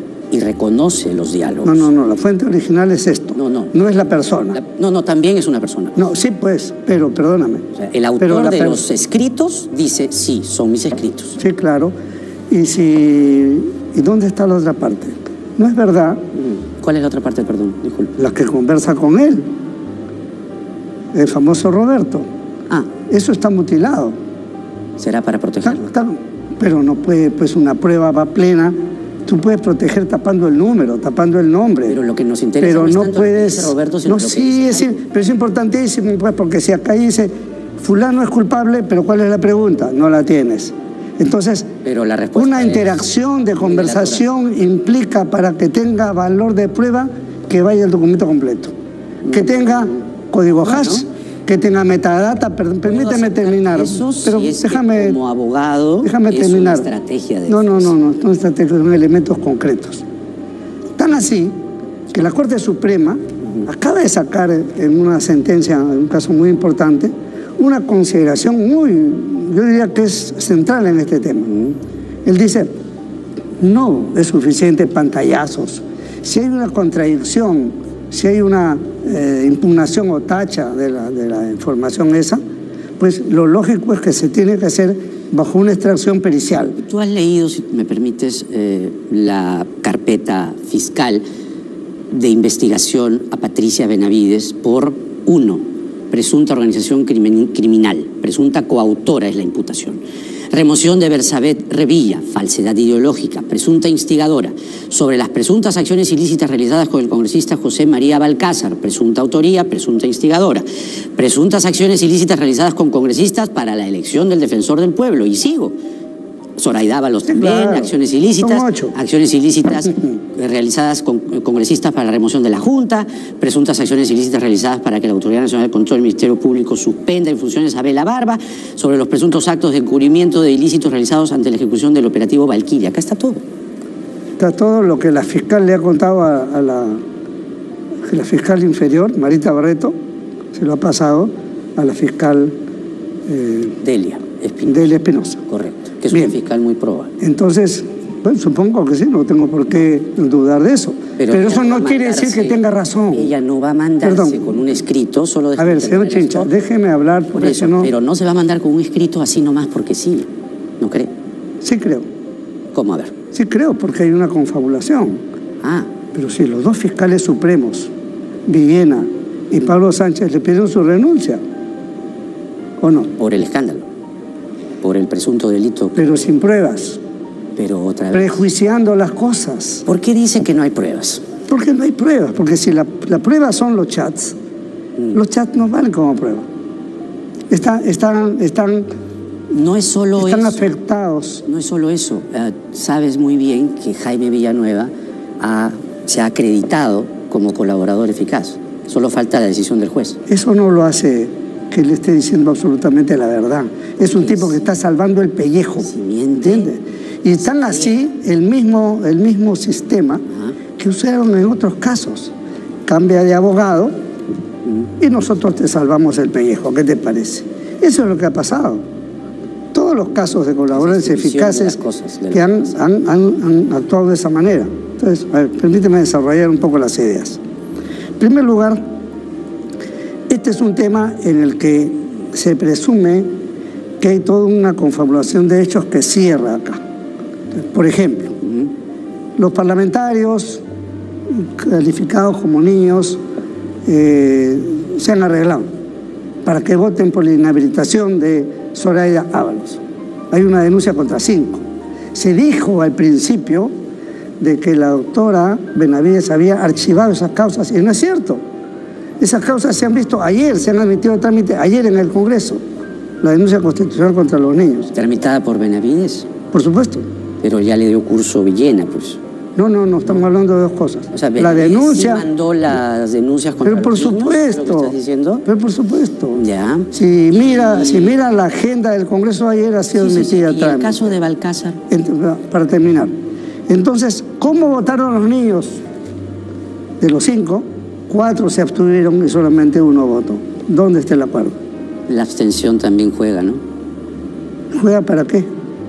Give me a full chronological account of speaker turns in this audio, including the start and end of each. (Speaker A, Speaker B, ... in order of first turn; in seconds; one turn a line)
Speaker A: 0.3-1.9
Speaker B: 1.6-4.6
Speaker A: 3.4-3.8
Speaker A: 4.5-6.0
Speaker B: 6.0-7.7
Speaker A: 7.7-11.4
Speaker B: 8.2-8.8
Speaker B: 11.4-11.9
Speaker B: 12.5-16.2
Speaker A: 16.4-18.1
Speaker B: 18.2-19.5
Speaker B: 21.1-22.3
Speaker B: 23.1-24.1
Speaker A: 25.0-25.9
Speaker B: 25.6-32.0
Speaker A: 31.9-35.0
Speaker B: 32.6-41.7
Speaker A: 41.8-43.0
Speaker B: 42.4-48.7
Speaker A: 43.6-44.2
Speaker A: 49.2-49.9
Speaker B: 49.3-55.2
Speaker A: 50.6-51.0
Speaker A: 52.9-57.9
Speaker B: 56.0-56.9
Speaker B: 57.5-60.0
Speaker B: 61.0-61.6
Speaker B: 62.1-71.5
Speaker A: 71.5-71.8
Speaker B: 72.2-72.7
Speaker B: 73.6-82.4
Speaker B: 83.0-86.8
Speaker A: 86.7-91.2
Speaker A: 92.1-110.6
Speaker A: 111.2-115.8
Speaker A: 116.6-133.4
Speaker B: 117.3-118.9
Speaker B: 134.4-137.0
Speaker B: 138.1-140.0
Speaker B: 140.5-142.6
Speaker B: 143.3-143.8
Speaker A: 143.8-144.9
Speaker B: 144.7-145.4
Speaker A: 145.5-147.1
Speaker B: 147.2-153.3
Speaker A: 151.2-156.5
Speaker B: 154.0-154.6
Speaker B: 155.6-157.9
Speaker A: 157.3-160.3
Speaker A: 160.8-161.1
Speaker B: 161.6-162.1
Speaker A: 162.7-163.1
Speaker B: 163.3-165.2
Speaker A: 165.6-165.9
Speaker B: 166.1-167.9
Speaker B: 168.5-171.4
Speaker B: 172.8-173.1
Speaker A: 173.2-173.9
Speaker A: 174.8-176.1
Speaker B: 176.0-177.0
Speaker A: 177.6-178.4
Speaker B: 178.1-179.8
Speaker A: 179.9-181.2
Speaker B: 181.5-184.3
Speaker B: 185.1-186.5
Speaker B: 187.5-188.9
Speaker A: 189.5-190.6
Speaker B: 190.2-191.5
Speaker A: 191.5-200.2
Speaker B: 200.3-210.2
Speaker A: 204.0-204.6
Speaker A: 205.8-206.7
Speaker B: 210.8-212.3
Speaker B: 212.9-213.9
Speaker B: 215.0-218.8
Speaker B: 219.7-221.8
Speaker A: 220.7-222.7
Speaker B: 222.3-227.4
Speaker B: 228.2-228.8
Speaker B: 230.3-233.3
Speaker B: 234.0-236.8
Speaker B: 237.7-238.4
Speaker B: 239.4-240.6
Speaker B: 241.3-243.2
Speaker B: 243.9-245.7
Speaker B: 246.4-253.7
Speaker B: 254.4-258.4
Speaker B: 259.2-262.6
Speaker B: 263.2-264.9
Speaker A: 264.9-266.3
Speaker B: 266.5-267.1
Speaker A: 267.4-269.2
Speaker B: 269.6-272.2
Speaker A: 271.1-275.4
Speaker B: 273.6-274.9
Speaker B: 275.4-281.1
Speaker A: 276.3-278.1
Speaker A: 279.9-281.8
Speaker B: 281.9-283.1
Speaker B: 283.7-285.8
Speaker B: 287.0-291.6
Speaker A: 292.1-293.6
Speaker B: 294.7-295.5